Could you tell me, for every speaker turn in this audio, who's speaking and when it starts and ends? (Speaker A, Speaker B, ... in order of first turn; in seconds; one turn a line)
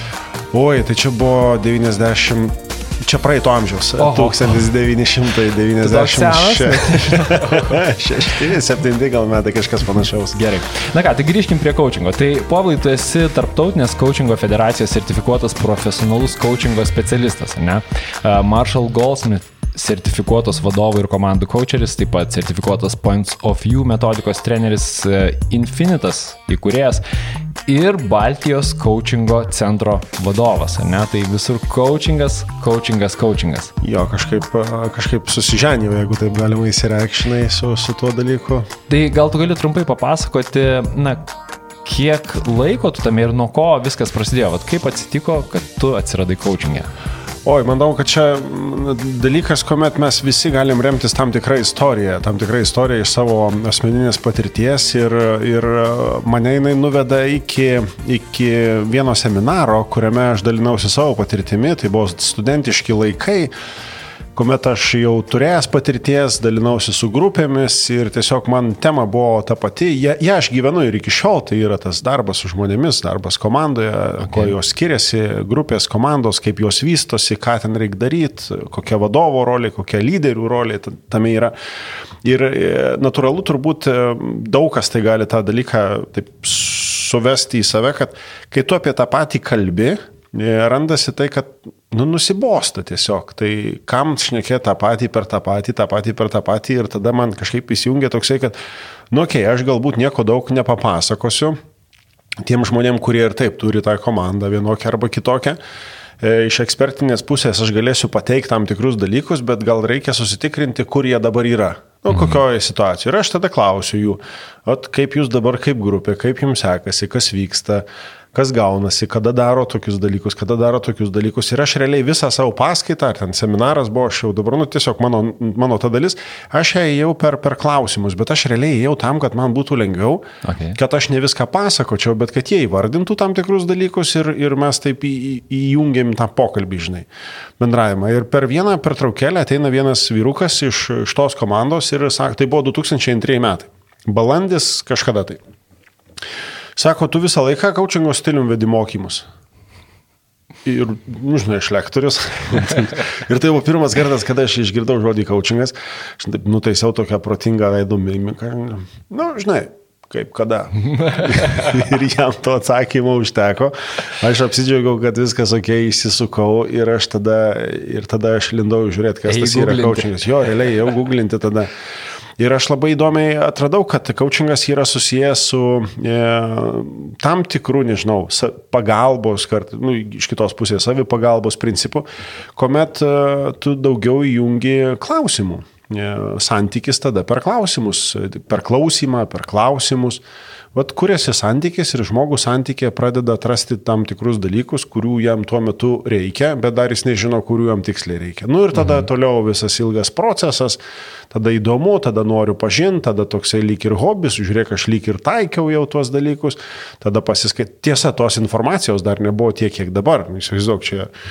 Speaker A: 0.5-10.4
Speaker B: 4.0-4.6
Speaker B: 5.8-7.8
Speaker B: 10.3-27.0
Speaker B: 27.6-33.7
Speaker A: 33.8-38.7
Speaker B: 38.9-41.3
Speaker B: 41.8-46.9
Speaker A: 47.4-63.5
Speaker A: 64.3-81.5
Speaker B: 74.2-74.5
Speaker A: 82.2-98.6
Speaker A: 99.1-101.6
Speaker A: 102.4-105.6
Speaker A: 106.2-137.1
Speaker B: 112.1-112.4
Speaker B: 130.4-130.8
Speaker A: 137.6-145.4
Speaker A: 146.8-149.3
Speaker A: 150.6-171.7
Speaker B: 169.3-170.2
Speaker A: 172.4-200.8
Speaker A: 201.3-211.1